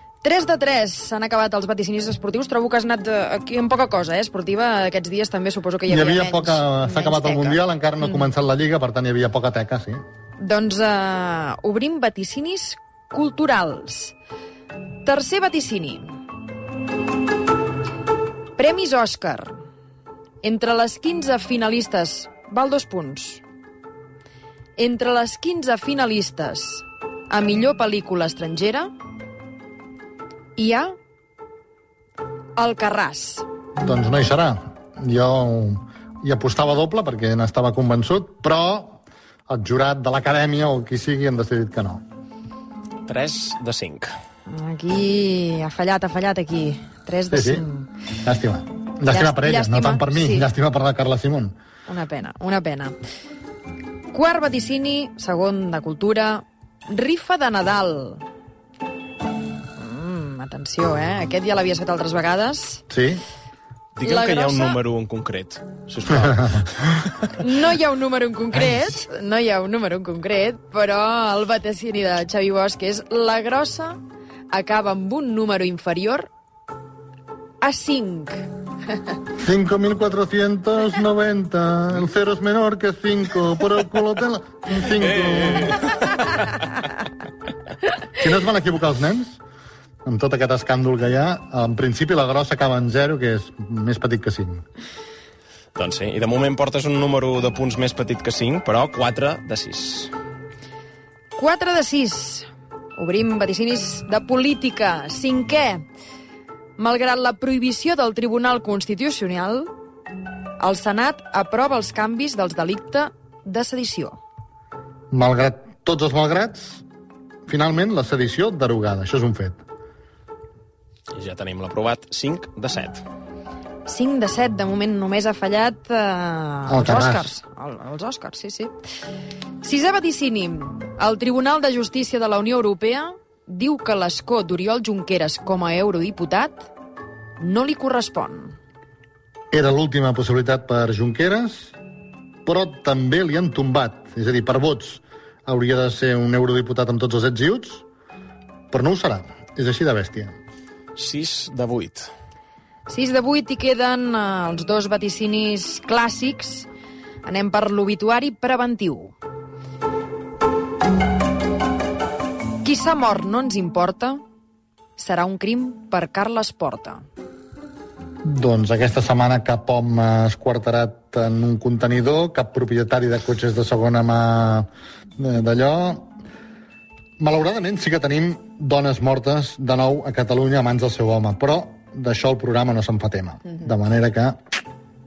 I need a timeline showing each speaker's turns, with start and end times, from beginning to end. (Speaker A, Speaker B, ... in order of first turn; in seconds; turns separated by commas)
Speaker A: 0.2-8.3, Speaker B: 5.9-10.0, Speaker A: 10.4-14.2, Speaker A: 15.0-16.1, Speaker A: 18.6-19.6, Speaker A: 20.4-23.4, Speaker A: 24.8-28.9, Speaker A: 30.6-30.9, Speaker A: 32.6-33.5, Speaker B: 33.8-42.0, Speaker C: 43.1-44.1, Speaker A: 44.5-47.9, Speaker B: 47.3-47.6, Speaker B: 48.2-51.5, Speaker A: 49.1-50.5, Speaker A: 51.9-53.0, Speaker A: 54.1-58.2, Speaker A: 59.8-62.8, Speaker B: 62.9-63.2, Speaker C: 64.0-67.3, Speaker A: 64.0-64.8, Speaker A: 67.3-74.0, Speaker A: 74.5-76.3, Speaker A: 77.6-78.5, Speaker B: 79.4-85.8, Speaker C: 85.0-86.6, Speaker B: 88.2-89.4, Speaker B: 90.1-94.6, Speaker C: 95.8-100.1, Speaker A: 101.4-105.8, Speaker A: 106.8-109.7, Speaker A: 110.6-114.2, Speaker B: 115.1-116.8, Speaker B: 117.5-119.6, Speaker C: 121.1-123.0, Speaker A: 123.9-128.7, Speaker B: 126.7-127.3, Speaker A: 129.6-136.7, Speaker A: 137.4-138.6, Speaker B: 139.5-141.8, Speaker B: 142.4-147.8, Speaker B: 148.7-150.3, Speaker C: 151.0-152.1, Speaker A: 152.9-156.7, Speaker A: 157.2-159.2, Speaker A: 162.6-164.2, Speaker A: 165.0-167.0, Speaker B: 168.2-176.1, Speaker B: 177.2-184.4